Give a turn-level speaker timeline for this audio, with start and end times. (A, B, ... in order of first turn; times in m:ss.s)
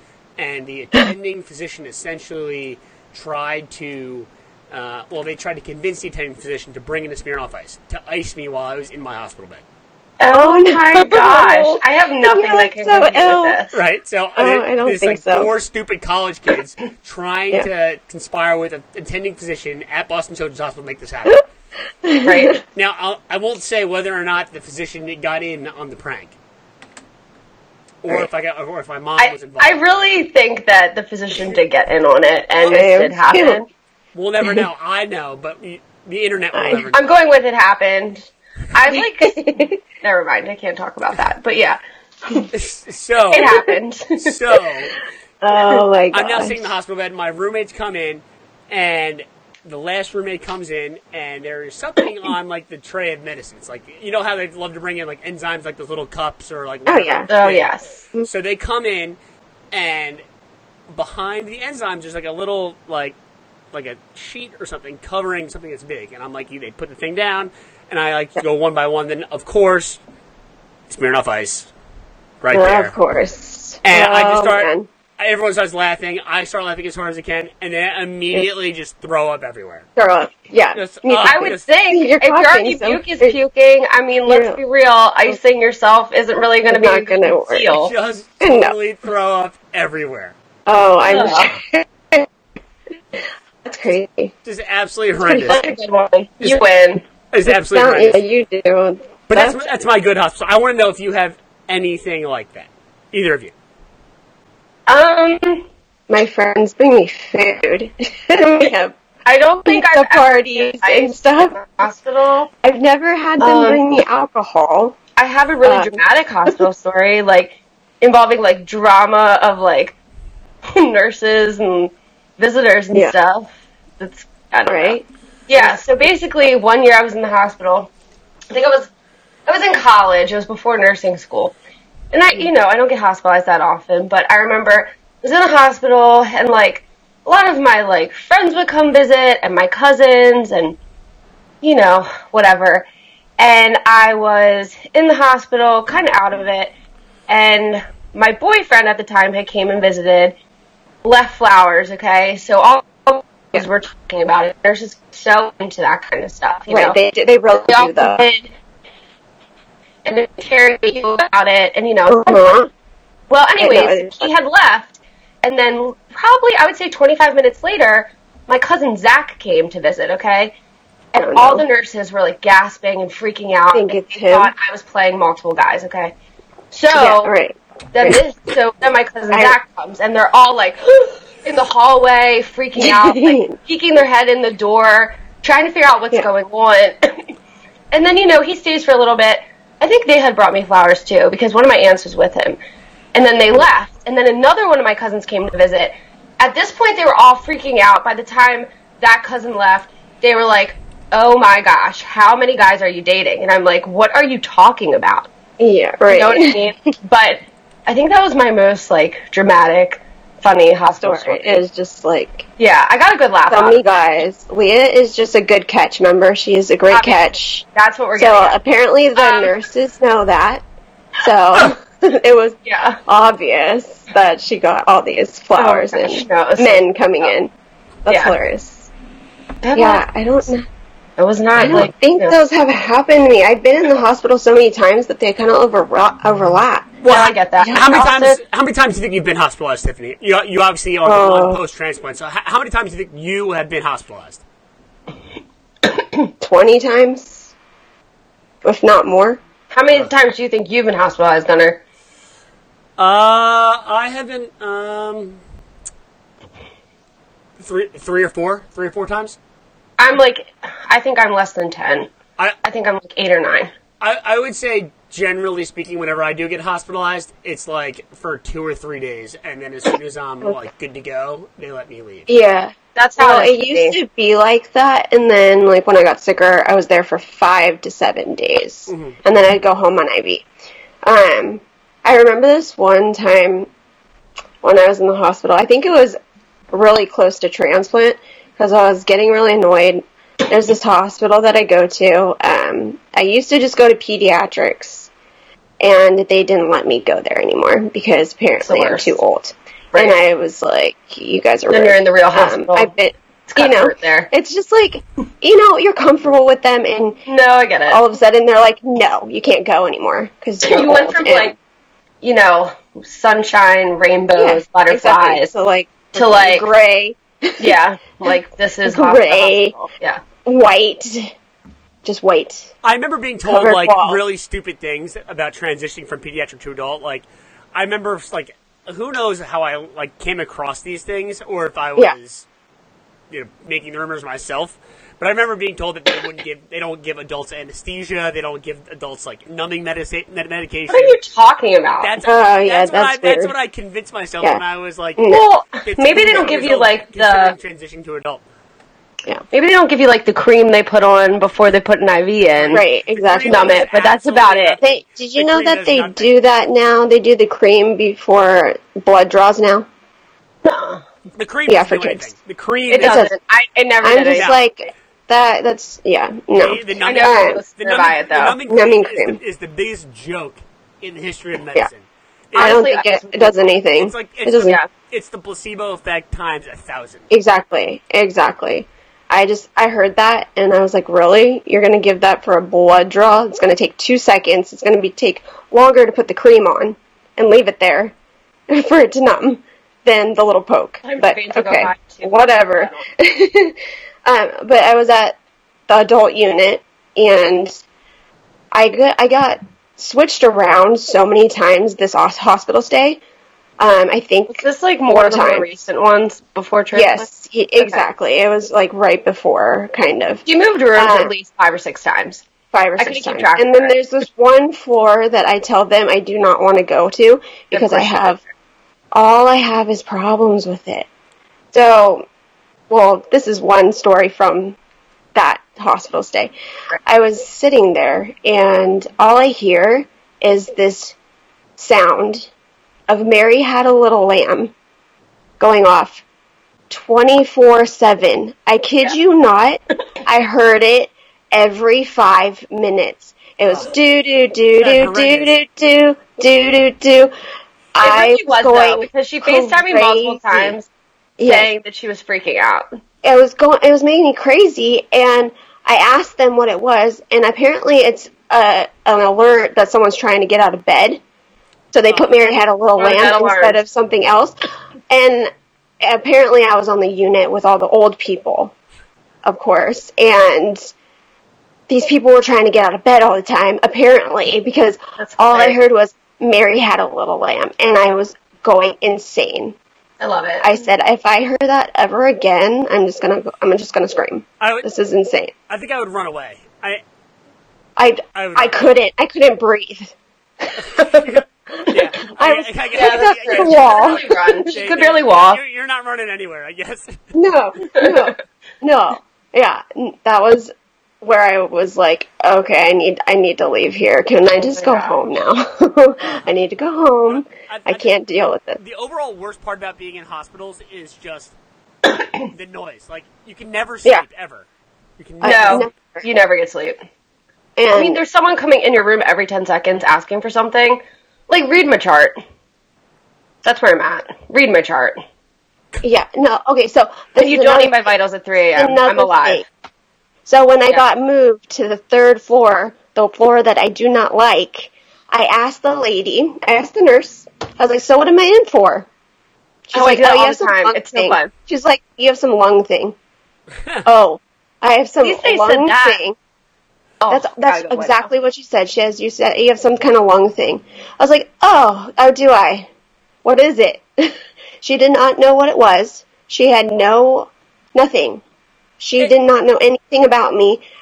0:00.4-0:09.6 A
0:10.2-0:13.8 B
0:10.3-0:13.6 C
0:13.7-0:21.4 A
0:14.4-0:15.5 C
0:22.0-0:22.6 C
0:22.2-0:22.6 B
0:22.7-0:26.4 A
0:28.0-0:30.1 A
0:29.2-0:33.7 B
0:32.7-0:33.6 C
0:34.1-0:37.1 A
0:36.5-0:36.8 C
0:36.9-0:41.8 B
0:38.9-0:39.6 C
0:42.5-0:43.5 A
0:43.3-0:44.4 B
0:44.2-0:44.9 A
0:45.4-0:46.7 C
0:46.1-0:59.2 A
0:56.8-0:57.3 C
0:57.3-0:58.0 B
0:59.7-1:00.2 A
1:00.9-1:03.2 A
1:03.7-1:10.0 A
1:10.9-1:11.7 A
1:12.4-1:13.0 A
1:12.5-1:14.9 C
1:13.8-1:19.9 A
1:20.0-1:23.4 C
1:20.7-1:21.7 A
1:21.2-1:27.9 B
1:24.3-1:24.6 C
1:26.7-1:27.7 C
1:27.7-1:30.4 A
1:28.4-1:28.7 C
1:30.7-1:32.2 C
1:31.1-1:31.5 B
1:33.6-1:34.3 C
1:34.4-1:35.7 A
1:35.2-1:37.0 B
1:37.3-1:38.2 A
1:37.4-1:39.6 C
1:39.3-1:43.5 A
1:44.9-1:45.6 B
1:46.1-1:49.0 C
1:49.2-1:52.5 B
1:49.6-1:51.6 C
1:52.6-1:55.0 C
1:53.4-1:53.8 B
1:55.2-2:00.0 B
1:55.6-1:55.9 C
2:00.7-2:07.9 B
2:04.7-2:05.0 C
2:08.5-2:08.9 B
2:09.5-2:11.6 B
2:12.1-2:20.8 B
2:21.6-2:22.9 B
2:23.4-2:26.7 B
2:27.3-2:30.4 B
2:31.0-2:37.0 B
2:36.7-2:38.2 C
2:37.7-2:38.5 B
2:40.0-2:42.6 B
2:42.1-2:42.7 C
2:43.3-2:50.6 B
2:43.6-2:44.3 C
2:51.2-2:51.6 C
2:51.2-2:56.1 B
2:53.7-2:54.5 C
2:56.7-2:57.3 B
2:56.9-2:58.2 C
2:57.9-3:07.2 B
3:02.8-3:03.5 C
3:07.9-3:12.6 B
3:13.1-3:25.3 B
3:25.6-3:26.6 C
3:26.1-3:31.6 B
3:31.0-3:32.5 C
3:32.6-3:33.8 B
3:33.5-3:37.6 C
3:36.9-3:38.6 B
3:38.2-3:40.6 C
3:39.2-3:39.6 B
3:41.2-3:47.5 C
3:42.7-3:43.0 B
3:45.6-3:47.3 B
3:48.0-3:48.9 C
3:48.1-3:48.4 B
3:49.6-3:50.0 B
3:49.7-3:50.7 C
3:51.2-3:52.4 B
3:51.6-3:57.0 C
3:57.0-4:04.4 A
3:57.1-3:58.4 B
4:01.0-4:01.6 C
4:06.4-4:07.5 C
4:08.6-4:09.4 C
4:09.7-4:11.8 B
4:13.0-4:15.4 A
4:17.6-4:19.4 A
4:20.0-4:22.1 B
4:22.6-4:23.7 B
4:24.0-4:32.3 A
4:32.3-4:40.4 C
4:33.0-4:34.0 B
4:38.9-4:39.2 A
4:41.0-4:43.7 C
4:44.6-4:46.2 C
4:46.7-4:55.1 C
4:55.8-5:07.2 C
4:58.6-4:59.2 B
4:59.9-5:00.2 B
5:01.7-5:02.9 B
5:03.5-5:04.3 B
5:07.3-5:08.0 B
5:07.9-5:11.6 C
5:10.6-5:11.6 B
5:12.2-5:15.5 B
5:14.4-5:17.8 C
5:16.1-5:16.7 B
5:17.6-5:20.2 B
5:18.8-5:19.9 C
5:20.4-5:21.3 C
5:22.0-5:22.7 C
5:22.8-5:32.4 A
5:23.4-5:24.2 C
5:33.3-5:41.2 A
5:40.9-5:42.1 B
5:42.0-5:45.2 A
5:42.2-5:43.5 C
5:45.2-5:45.4 C
5:45.3-5:47.5 B
5:45.8-5:48.4 A
5:49.5-5:52.8 B
5:52.6-5:56.3 A
5:52.7-5:53.8 C
5:53.4-5:54.8 B
5:54.8-5:59.9 C
6:00.6-6:01.0 B
6:01.4-6:03.3 A
6:01.7-6:02.3 C
6:02.9-6:04.6 B
6:03.0-6:03.3 C
6:04.0-6:07.6 C
6:04.3-6:04.6 A
6:06.6-6:12.8 A
6:07.0-6:08.6 B
6:08.7-6:09.4 C
6:12.6-6:13.7 B
6:12.6-6:14.8 C
6:14.0-6:17.3 A
6:17.3-6:28.1 C
6:28.7-6:35.4 C
6:31.0-6:32.3 B
6:35.9-6:37.8 C
6:38.7-6:43.2 C
6:43.8-6:45.7 C
6:44.5-6:47.2 B
6:46.9-6:50.4 C
6:50.4-6:52.4 B
6:51.0-6:51.3 C
6:52.7-6:58.4 C
6:53.0-6:53.9 B
6:57.7-6:58.4 B
6:59.1-7:01.1 C
7:01.7-7:02.2 C
7:02.9-7:04.8 C
7:05.3-7:06.5 C
7:07.0-7:11.2 C
7:11.8-7:12.5 C
7:13.1-7:14.7 C
7:15.6-7:16.2 C
7:16.9-7:27.3 C
7:24.8-7:25.6 A
7:27.9-7:30.8 C
7:28.0-7:30.9 B
7:31.4-7:31.7 C
7:31.4-7:32.9 B
7:33.2-7:41.2 C
7:41.9-7:44.6 C
7:43.0-7:43.8 B
7:45.1-7:45.5 C
7:46.0-7:48.7 C
7:49.4-7:50.9 C
7:51.9-7:59.8 C
7:55.2-7:55.8 B
8:00.2-8:00.8 B
8:00.6-8:05.5 C
8:04.6-8:04.9 A
8:05.7-8:07.0 A
8:08.0-8:10.8 C
8:08.3-8:08.8 A
8:10.8-8:17.2 A
8:11.8-8:14.7 C
8:12.9-8:15.6 B
8:17.3-8:28.8 C
8:18.0-8:18.3 B
8:24.5-8:25.2 B
8:27.3-8:28.2 A
8:28.8-8:31.6 A
8:32.5-8:34.7 A
8:35.2-8:35.9 A
8:35.4-8:36.2 C
8:35.4-8:37.0 B
8:37.8-8:38.2 C
8:37.9-8:42.4 B
8:43.6-8:45.2 B
8:46.0-8:48.1 C
8:47.4-8:49.6 B
8:48.7-8:49.6 C
8:50.4-8:59.1 C
8:59.9-9:03.2 C
8:59.9-9:01.5 B
9:04.0-9:06.4 C
9:05.2-9:06.2 B
9:07.2-9:08.3 B
9:07.3-9:12.9 C
9:13.4-9:18.4 C
9:19.0-9:20.8 C